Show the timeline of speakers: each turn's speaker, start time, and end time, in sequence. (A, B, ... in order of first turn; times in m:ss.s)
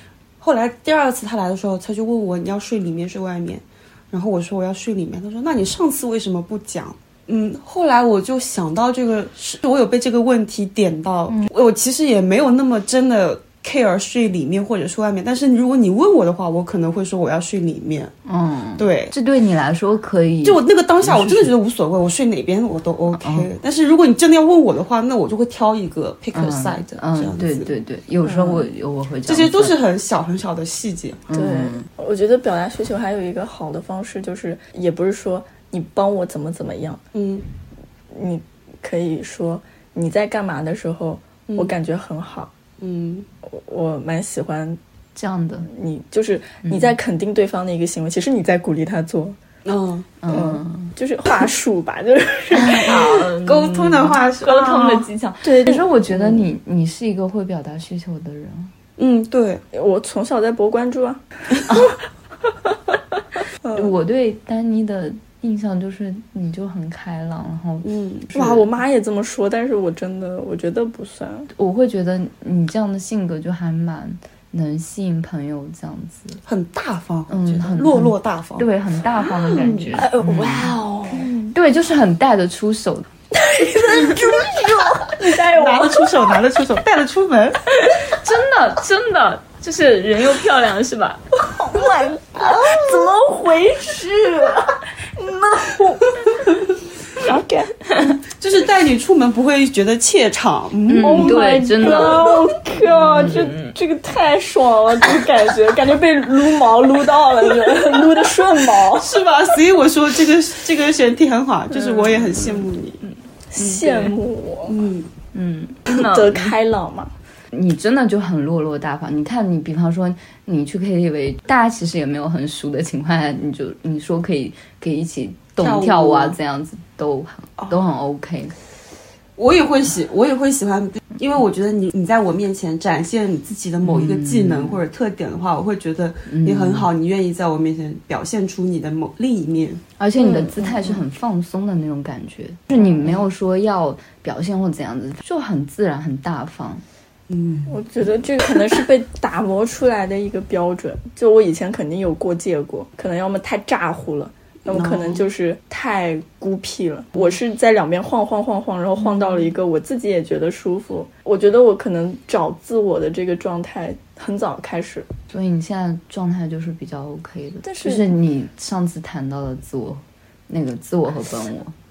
0:00.4-0:18.1 A
0:18.2-0:21.5 B
0:18.8-0:19.2 A
0:20.4-0:27.7 A
0:23.1-0:23.5 B
0:26.3-0:29.8 B
0:28.3-0:28.7 A
0:29.3-0:31.3 A
0:31.3-0:31.9 B
0:31.3-0:37.0 C
0:37.1-0:37.4 A
0:38.1-0:42.5 C
0:42.8-0:43.3 A
0:43.4-0:44.8 C
0:45.2-0:45.7 B
0:45.6-0:49.4 C
0:46.6-0:47.0 B
0:49.6-0:50.2 A
0:50.2-0:50.9 B
0:50.3-0:53.2 C
0:52.5-0:58.7 B
0:52.8-0:55.1 A
0:55.4-0:55.9 C
0:59.0-0:59.6 A
0:59.7-1:01.9 C
1:03.6-1:03.9 C
1:03.7-1:07.9 B
1:07.8-1:08.5 A
1:08.3-1:11.5 C
1:08.4-1:08.7 B
1:11.5-1:16.4 B
1:16.5-1:18.7 A
1:17.3-1:23.1 B
1:19.5-1:20.1 A
1:19.9-1:21.4 C
1:23.3-1:26.4 C
1:24.0-1:27.8 A
1:27.9-1:31.2 B
1:31.5-1:36.2 C
1:37.2-1:37.8 C
1:38.4-1:41.5 A
1:40.9-1:43.8 B
1:41.0-1:49.2 C
1:48.9-1:53.0 A
1:53.5-1:54.8 C
1:53.6-1:55.1 A
1:55.3-1:56.6 B
1:55.9-1:57.1 C
1:57.5-2:08.6 B
2:05.6-2:06.4 A
2:09.4-2:21.0 A
2:13.8-2:14.8 B
2:16.3-2:16.9 B
2:20.0-2:26.8 B
2:27.3-2:27.7 A
2:27.7-2:45.1 C
2:34.7-2:35.2 A
2:39.0-2:39.5 B
2:45.3-2:51.7 B
2:47.6-2:48.1 C